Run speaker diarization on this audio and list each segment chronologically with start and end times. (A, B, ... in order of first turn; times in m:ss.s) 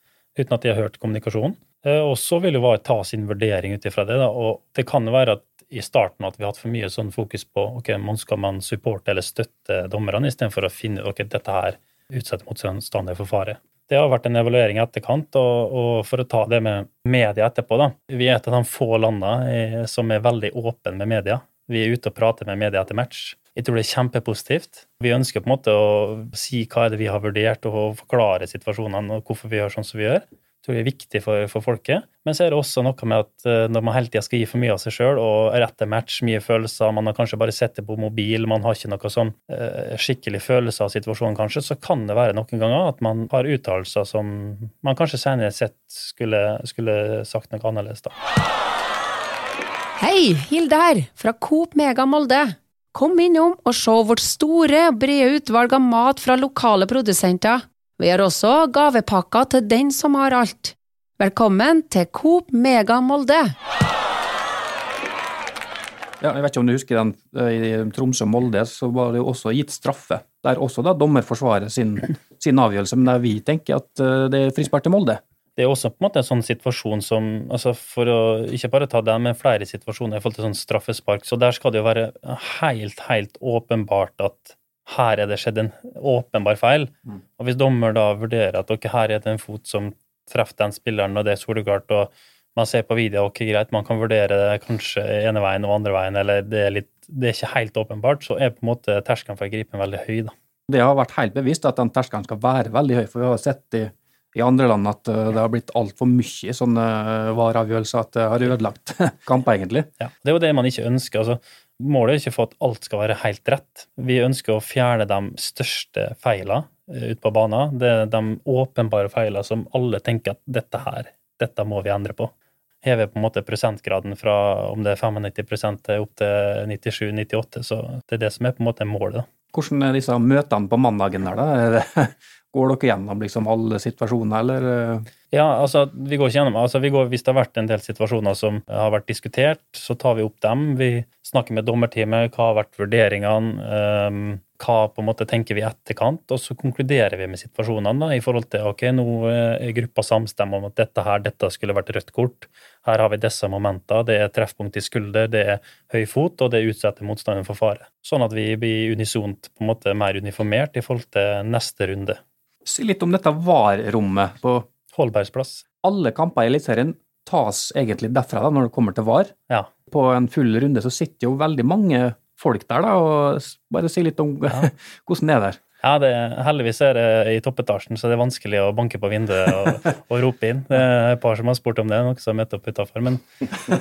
0:00.4-0:48.1 A
0:50.0-1:03.5 B
1:06.2-1:15.2 C
1:15.6-1:40.3 A
1:40.7-1:49.9 C
1:50.0-2:02.3 A
2:02.8-2:09.3 A
2:09.5-2:15.1 C
2:15.3-2:42.2 A
2:42.6-2:44.7 C
2:44.9-2:45.6 A
2:45.8-2:49.3 C
2:49.9-2:55.6 C
2:55.8-3:03.2 A